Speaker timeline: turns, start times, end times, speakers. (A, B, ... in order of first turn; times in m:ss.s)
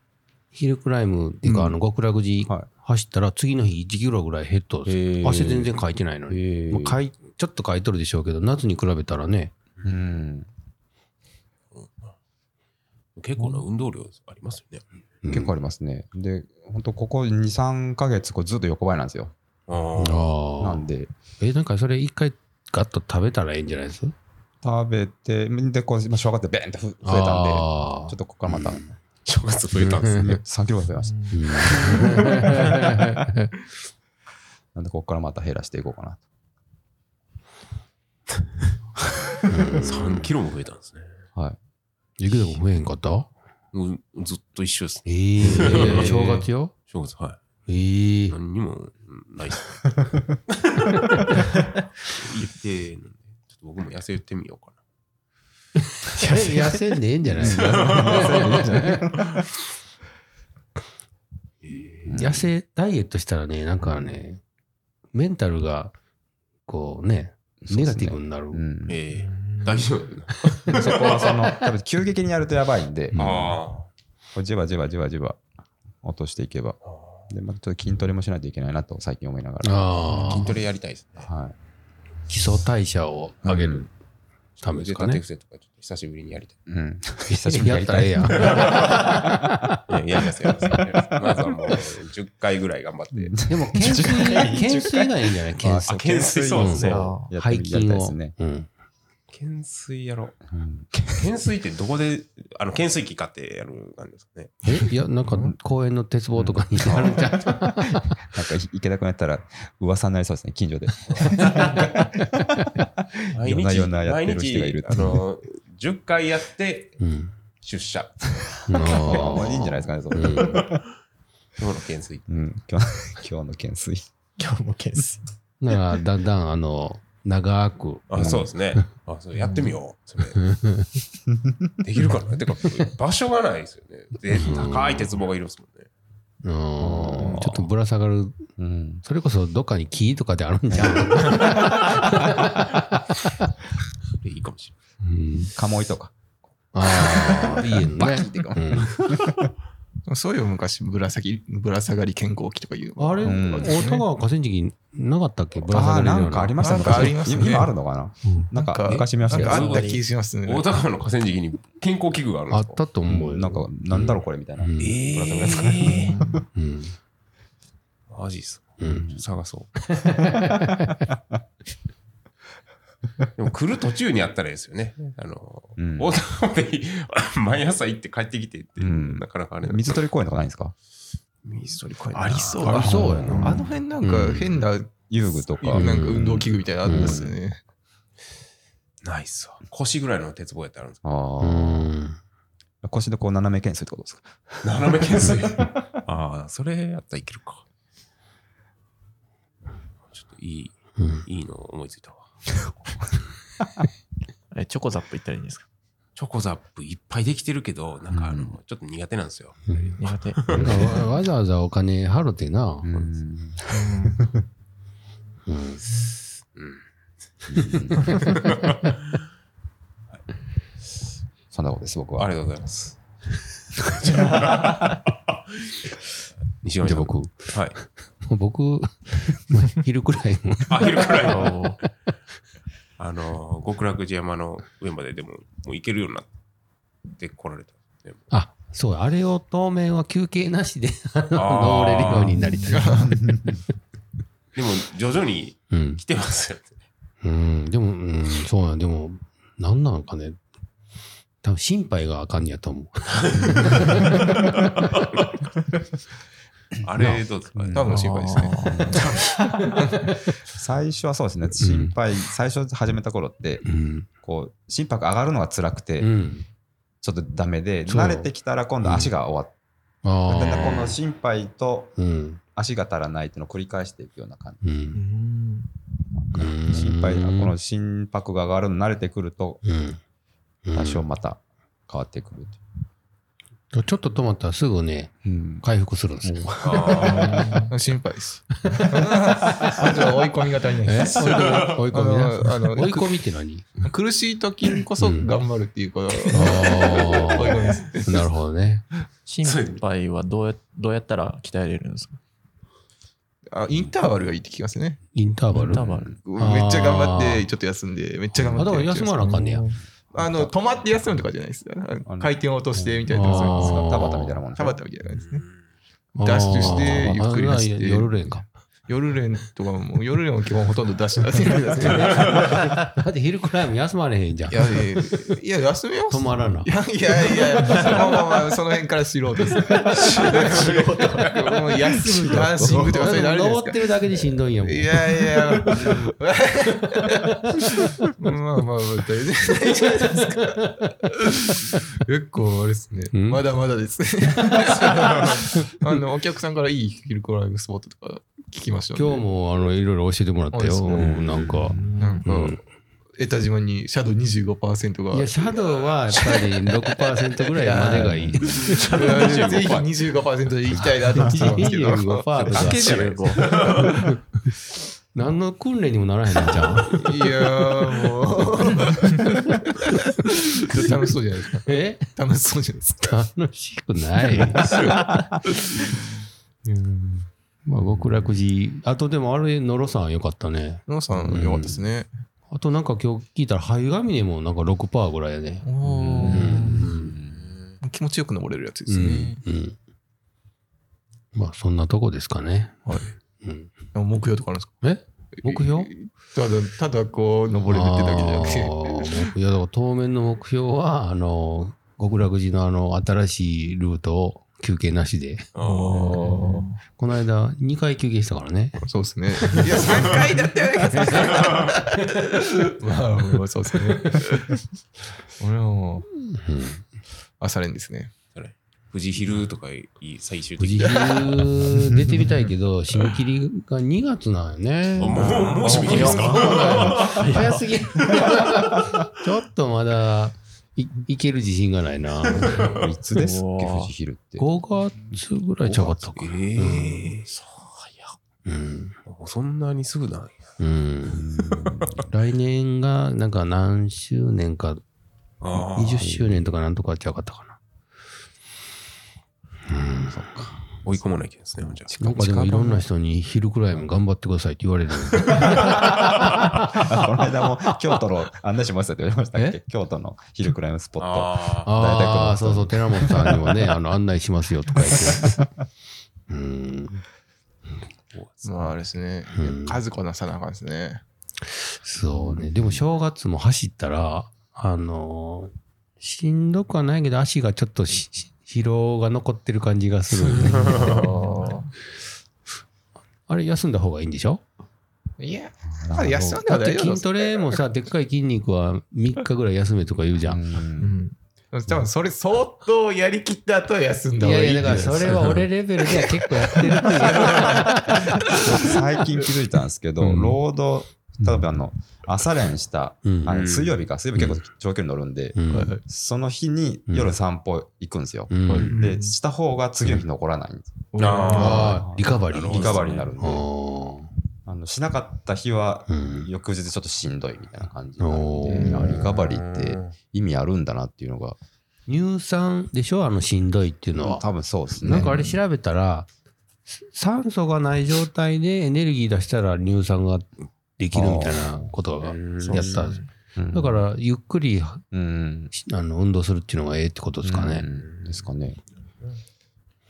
0:00.5-0:09.5 A
0:01.4-0:01.8 B
0:04.9-0:05.7 C
0:06.3-0:06.9 C
0:09.8-0:10.5 B
0:11.7-0:12.1 C
0:13.2-0:14.8 C
0:15.2-0:15.5 A
0:15.3-0:19.3 B
0:19.7-0:20.3 C
0:20.0-0:20.9 A
0:20.6-0:21.1 B
0:21.4-0:24.1 A
0:24.6-0:28.8 B
0:27.0-0:28.2 A
0:29.2-0:30.4 C
0:29.8-0:30.2 A
0:30.1-0:32.0 B
0:31.0-0:31.3 D
0:31.3-0:33.5 A
0:31.6-0:32.4 C
0:34.7-0:36.2 B
0:39.5-0:40.3 A
0:39.8-0:41.2 C
0:42.2-0:43.3 A
0:43.7-0:47.4 C
0:45.0-0:46.7 A
0:45.5-0:46.3 B
0:47.7-0:48.4 A
0:48.3-0:50.0 C
0:50.5-0:51.0 C
0:52.0-0:54.8 C
0:56.2-0:59.1 A
0:57.4-0:59.3 B
0:57.4-0:58.7 C
1:01.6-1:02.1 C
1:02.0-1:02.5 B
1:02.1-1:04.4 A
1:05.1-1:05.9 A
1:06.6-1:08.6 A
1:07.6-1:09.0 B
1:08.9-1:11.3 C
1:10.7-1:13.3 B
1:13.1-1:13.6 A
1:13.2-1:13.9 C
1:14.3-1:15.4 B
1:16.0-1:20.6 B
1:16.8-1:17.2 C
1:19.6-1:20.5 A
1:20.1-1:21.3 C
1:21.2-1:21.5 B
1:22.3-1:23.9 A
1:23.4-1:23.7 B
1:23.5-1:23.9 C
1:24.6-1:26.6 C
1:24.6-1:25.2 A
1:26.7-1:29.3 B
1:27.3-1:29.8 A
1:28.4-1:29.1 C
1:29.9-1:34.4 C
1:30.7-1:31.4 B
1:33.1-1:38.3 B
1:33.5-1:38.7 A
1:35.9-1:37.0 C
1:36.7-1:37.3 D
1:39.3-1:40.4 C
1:40.5-1:41.3 B
1:41.1-1:44.6 C
1:44.6-1:48.1 A
1:46.5-1:47.4 C
1:48.3-1:52.1 B
1:51.1-1:51.4 C
1:53.3-1:57.0 C
1:53.3-1:55.2 B
1:57.0-1:57.3 A
1:57.6-1:59.6 C
1:58.7-2:00.7 A
1:58.8-2:00.8 B
2:01.6-2:02.4 C
2:02.3-2:04.1 B
2:04.4-2:05.2 D
2:05.6-2:08.8 A
2:08.1-2:10.5 C
2:08.2-2:08.5 B
2:10.4-2:10.9 A
2:11.8-2:15.9 C
2:14.3-2:15.1 A
2:16.4-2:18.5 A
2:16.8-2:17.7 B
2:18.6-2:19.0 B
2:19.0-2:23.5 A
2:20.7-2:22.1 B
2:24.2-2:24.7 C
2:25.0-2:25.5 A
2:25.5-2:26.1 B
2:26.7-2:28.9 A
2:26.9-2:29.5 B
2:27.0-2:28.8 C
2:30.0-2:34.0 E
2:33.0-2:37.1 A
2:33.2-2:33.8 B
2:35.6-2:40.0 B
2:36.6-2:37.7 E
2:38.2-2:38.5 A
2:38.5-2:40.7 E
2:38.9-2:42.8 C
2:39.3-2:40.0 D
2:42.5-2:45.0 A
2:43.1-2:46.2 B
2:44.8-2:46.1 C
2:45.9-2:46.4 D
2:46.5-2:47.0 A
2:48.1-2:49.7 C
2:48.8-2:49.1 A
2:48.8-2:49.2 B
2:50.0-2:51.0 A
2:53.4-3:00.0 C
2:55.8-2:56.1 B
2:58.8-3:00.7 B
3:01.4-3:02.9 C
3:02.1-3:07.6 E
3:02.6-3:04.6 A
3:02.8-3:03.7 B
3:05.1-3:07.4 B
3:05.7-3:06.3 A
3:06.8-3:07.2 A
3:09.0-3:11.0 C
3:11.0-3:11.9 B
3:11.4-3:12.2 A
3:12.8-3:15.9 B
3:14.6-3:17.6 C
3:20.1-3:23.1 C
3:21.0-3:21.2 A
3:24.5-3:25.6 D
3:26.2-3:30.9 C
3:28.1-3:28.5 B
3:29.7-3:32.9 A
3:30.0-3:30.9 D
3:30.5-3:30.9 B
3:32.8-3:34.4 B
3:33.7-3:34.3 D
3:35.5-3:35.8 A
3:36.5-3:36.8 C
3:37.5-3:38.9 C
3:37.5-3:38.3 B
3:37.7-3:38.4 A
3:41.5-3:42.3 B
3:42.2-3:43.0 C
3:43.8-3:44.9 C
3:46.6-3:47.8 C
3:46.8-3:51.9 A
3:50.7-3:51.8 C
3:51.2-3:51.8 D
3:53.0-3:56.3 C
3:57.1-3:58.3 C
3:58.3-4:03.2 A
4:01.3-4:02.4 C
4:02.6-4:03.2 E
4:04.5-4:06.8 C
4:05.7-4:06.0 A
4:07.2-4:10.4 A
4:11.4-4:14.9 A
4:13.5-4:13.7 C
4:16.8-4:19.5 C
4:17.5-4:18.0 B
4:17.7-4:18.9 E
4:17.9-4:19.0 D
4:18.7-4:19.7 B
4:20.5-4:23.6 B
4:21.6-4:21.9 A
4:23.6-4:24.1 A
4:24.2-4:26.1 B
4:26.0-4:26.4 A
4:27.0-4:29.5 B
4:27.9-4:28.3 A
4:28.8-4:29.1 A
4:30.0-4:31.0 A
4:30.2-4:32.0 B
4:32.0-4:32.4 A
4:32.5-4:34.6 B
4:34.6-4:35.0 A
4:34.9-4:35.7 D
4:36.1-4:39.6 B
4:36.3-4:37.6 A
4:39.6-4:40.0 A
4:40.6-4:41.1 A
4:40.7-4:42.6 B
4:43.7-4:47.7 A
4:45.2-4:45.6 B
4:46.2-4:47.6 B
4:46.6-4:47.4 C
4:47.3-4:53.2 E
4:50.8-4:53.7 A
4:51.1-4:51.8 C
4:53.8-4:58.3 E
4:55.0-4:55.3 A
4:56.3-4:58.8 A
4:59.2-5:02.2 D
4:59.4-4:59.8 C
5:03.5-5:05.0 E
5:05.1-5:05.8 A
5:05.5-5:06.2 D
5:05.8-5:06.2 B
5:06.2-5:14.0 E
5:06.4-5:07.4 A
5:08.5-5:09.6 A
5:09.2-5:09.7 D
5:10.2-5:10.5 B
5:12.0-5:14.8 B
5:13.1-5:14.4 A
5:14.5-5:15.4 E
5:15.2-5:15.6 C
5:16.2-5:18.5 A
5:16.2-5:18.1 E
5:18.9-5:22.7 E
5:21.8-5:25.3 A
5:24.5-5:33.9 E
5:26.1-5:26.7 A
5:27.6-5:28.0 A
5:30.2-5:31.5 D
5:30.4-5:31.2 C
5:31.9-5:32.9 B
5:32.6-5:36.0 A
5:34.6-5:37.2 E
5:36.8-5:38.1 A
5:38.2-5:49.2 E
5:40.0-5:41.8 A
5:43.1-5:43.4 A
5:48.9-5:52.6 A
5:50.5-5:51.4 E
5:51.1-5:51.9 C
5:51.7-5:52.0 B
5:51.8-5:52.2 D
5:52.0-5:52.6 E
5:53.1-5:55.5 E
5:55.1-5:59.2 A
5:56.1-5:57.3 C
5:57.5-6:02.4 E
5:58.4-5:59.9 C
6:01.0-6:04.2 A
6:02.5-6:03.6 D
6:02.5-6:04.0 C
6:05.1-6:07.0 A
6:06.5-6:06.8 B
6:06.9-6:13.0 E
6:10.6-6:10.9 A
6:11.7-6:12.1 A
6:12.9-6:15.0 A
6:14.4-6:15.9 E
6:16.6-6:17.3 E
6:17.6-6:21.8 A
6:20.9-6:22.1 E
6:21.1-6:21.7 B
6:22.5-6:25.7 A
6:25.6-6:27.0 E
6:25.8-6:27.5 B
6:26.2-6:27.1 A
6:27.2-6:27.8 C
6:27.8-6:29.4 E
6:28.9-6:29.8 A
6:31.3-6:33.8 A
6:32.9-6:33.1 E
6:33.9-6:34.8 E
6:34.8-6:35.9 A
6:35.4-6:39.3 E
6:37.6-6:45.5 A
6:45.6-6:46.3 C
6:45.6-6:46.8 E
6:46.2-6:46.7 D
6:46.2-6:48.9 A
6:48.8-6:54.4 E
6:49.4-6:49.8 A
6:51.0-6:51.3 A
6:54.0-6:54.3 A
6:55.4-6:56.1 E
6:56.3-6:56.8 A
6:57.4-6:58.1 E
6:58.3-7:01.5 C
7:00.6-7:12.7 A
7:05.0-7:07.5 C
7:05.0-7:08.1 D
7:12.3-7:12.8 C
7:12.8-7:14.5 B
7:13.1-7:13.9 D
7:14.4-7:17.1 A
7:16.1-7:17.3 C
7:17.3-7:18.2 D
7:18.4-7:19.0 A
7:19.0-7:20.4 C
7:20.6-7:21.3 A
7:21.1-7:22.1 B
7:21.4-7:22.0 C
7:22.1-7:24.8 A
7:25.4-7:26.2 C
7:25.6-7:27.6 A
7:29.7-7:30.3 A
7:30.1-7:31.0 B
7:30.8-7:32.7 C
7:31.6-7:31.9 B
7:32.0-7:36.9 A
7:35.6-7:35.9 B
7:36.7-7:43.1 B
7:41.0-7:41.7 C
7:41.6-7:45.3 A
7:46.3-7:47.0 A
7:48.1-7:48.7 C
7:48.4-7:51.0 E
7:49.3-7:49.8 A
7:51.8-8:01.0 A
8:00.4-8:00.9 C
8:00.5-8:01.7 E
8:00.8-8:01.6 D
8:03.3-8:04.4 A
8:05.2-8:07.6 E
8:05.8-8:06.2 B
8:06.0-8:10.4 A
8:10.3-8:11.0 B
8:10.8-8:18.7 E
8:14.2-8:18.7 A
8:18.5-8:30.9 B
8:20.0-8:20.4 A
8:23.0-8:23.3 A
8:23.3-8:23.8 C
8:25.3-8:25.8 A
8:25.5-8:25.8 E
8:26.9-8:27.1 A
8:28.3-8:28.7 A
8:28.5-8:29.0 E
8:28.9-8:29.1 D
8:30.9-8:31.8 E
8:31.0-8:31.8 C
8:31.3-8:34.1 A
8:31.6-8:33.4 B
8:32.3-8:33.1 C
8:34.4-8:41.4 B
8:35.9-8:36.3 A
8:38.0-8:39.0 A
8:38.6-8:39.9 C
8:41.9-8:44.2 A
8:44.0-8:45.2 B
8:44.7-8:46.1 A
8:45.0-8:45.4 D
8:46.9-8:53.0 A
8:50.9-8:51.7 B
8:52.0-8:52.9 C
8:52.4-8:53.1 D
8:53.4-8:53.8 B
8:53.5-8:54.8 A
8:54.9-8:55.5 B
8:55.5-8:57.6 A
8:57.2-8:58.6 B
8:57.7-8:58.3 C